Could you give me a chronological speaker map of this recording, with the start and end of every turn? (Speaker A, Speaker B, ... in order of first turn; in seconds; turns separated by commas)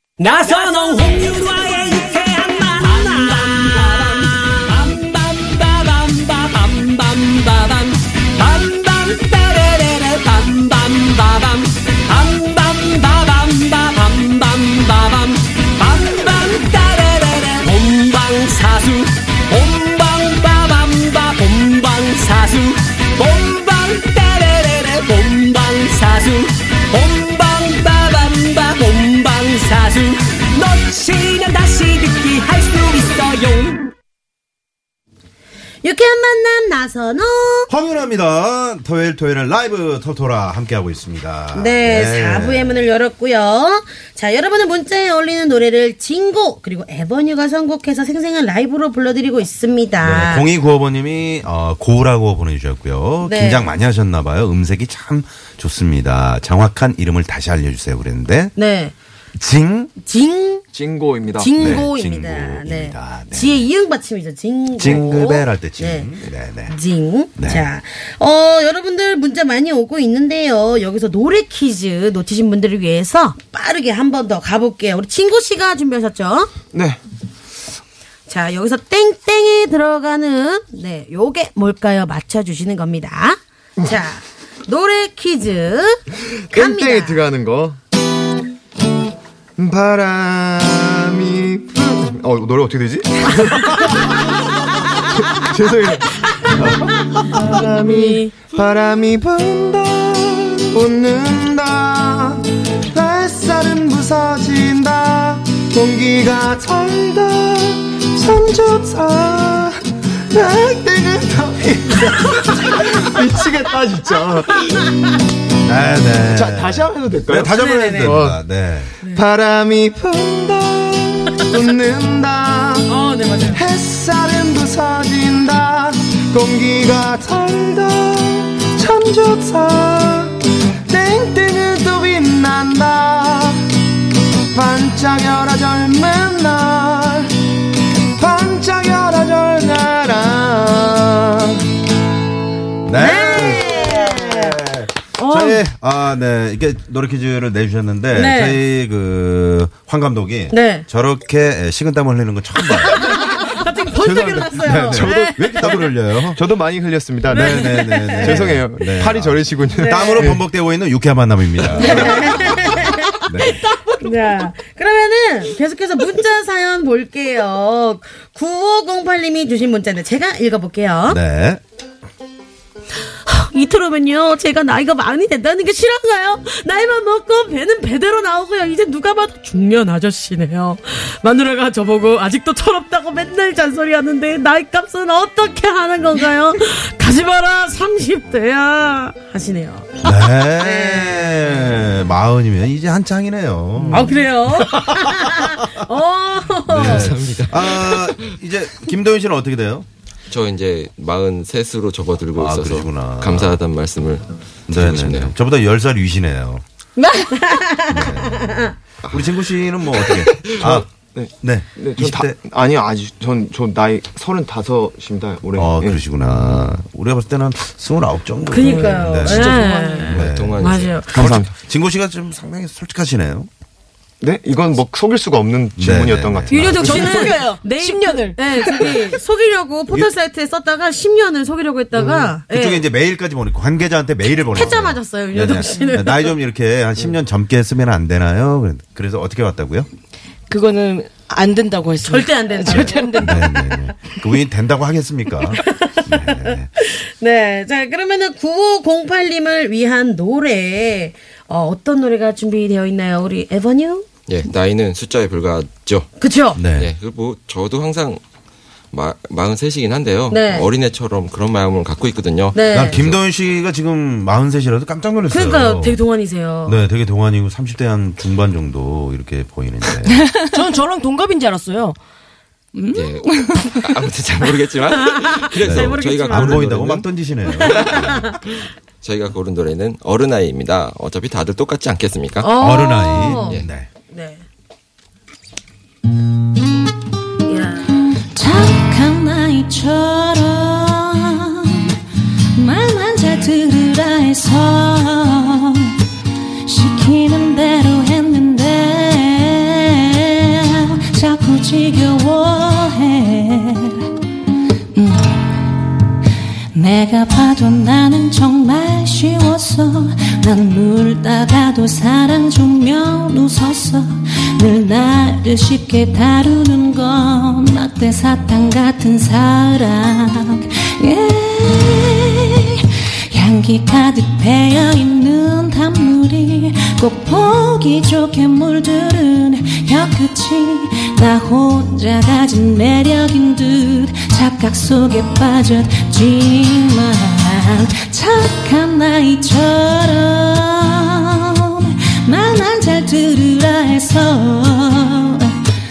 Speaker A: 0.2-33.9, Speaker B: 35.8-37.7, Speaker C: 37.7-42.9, Speaker B: 41.5-50.5, Speaker C: 50.0-58.5, Speaker B: 53.2-53.7, Speaker B: 58.5-58.9, Speaker C: 59.4-59.9, Speaker B: 60.0-60.6, Speaker D: 60.7-61.8, Speaker B: 61.4-66.1, Speaker C: 61.6-63.7, Speaker C: 64.7-66.7, Speaker B: 66.7-76.5, Speaker C: 67.3-67.7, Speaker D: 76.7-77.0, Speaker B: 78.2-87.2, Speaker D: 86.5-87.8, Speaker D: 89.6-94.2, Speaker D: 95.0-114.8, Speaker B: 97.2-98.3, Speaker C: 115.6-118.9, Speaker D: 116.2-118.4, Speaker B: 117.5-118.2, Speaker D: 119.0-122.9, Speaker B: 122.9-123.6, Speaker D: 123.5-133.6, Speaker D: 134.5-137.4, Speaker D: 138.2-141.7, Speaker C: 142.8-153.2, Speaker B: 142.9-144.5, Speaker B: 145.2-145.6, Speaker B: 148.1-148.6, Speaker B: 150.5-150.9, Speaker B: 152.8-155.9, Speaker D: 154.0-160.4, Speaker C: 154.6-156.4, Speaker B: 157.3-158.6, Speaker C: 157.3-162.6, Speaker B: 159.8-160.3, Speaker B: 161.8-171.2, Speaker C: 163.2-163.7, Speaker C: 171.1-171.6, Speaker B: 173.2-191.7, Speaker C: 190.0-194.1, Speaker E: 193.8-194.1, Speaker B: 193.9-197.2, Speaker C: 196.7-199.9, Speaker E: 196.8-197.8, Speaker E: 200.3-205.3, Speaker C: 202.3-203.6, Speaker C: 204.7-206.6, Speaker B: 207.3-208.7, Speaker C: 207.9-210.9, Speaker E: 209.0-209.3, Speaker D: 210.6-216.0, Speaker C: 211.4-212.3, Speaker C: 215.6-223.5, Speaker B: 218.5-221.2, Speaker F: 218.7-220.1, Speaker E: 220.1-221.0, Speaker D: 221.1-221.5, Speaker D: 224.2-227.3, Speaker C: 225.8-226.8, Speaker B: 226.5-232.8, Speaker F: 226.8-229.0, Speaker A: 227.8-228.2, Speaker D: 231.9-232.3, Speaker C: 232.5-239.9, Speaker B: 234.3-236.3, Speaker F: 240.5-243.4, Speaker A: 241.9-242.2, Speaker B: 242.0-243.5, Speaker C: 242.7-246.7, Speaker B: 245.7-254.1, Speaker E: 254.3-256.1, Speaker B: 256.2-256.6, Speaker C: 256.6-256.9, Speaker E: 256.7-258.2, Speaker E: 258.9-263.2, Speaker B: 260.3-260.7, Speaker B: 262.5-263.0, Speaker C: 262.7-266.0, Speaker B: 265.3-266.8, Speaker C: 266.6-270.2, Speaker F: 270.5-272.0, Speaker E: 272.9-277.1, Speaker B: 275.0-276.7, Speaker C: 275.5-278.2, Speaker B: 277.6-278.4, Speaker E: 277.7-278.3, Speaker E: 279.0-282.5, Speaker B: 282.4-284.4, Speaker C: 282.6-283.9, Speaker E: 283.4-283.7, Speaker B: 287.4-287.9, Speaker G: 288.3-292.0, Speaker G: 292.6-296.0, Speaker G: 296.6-304.1, Speaker G: 304.9-306.0, Speaker G: 306.7-345.6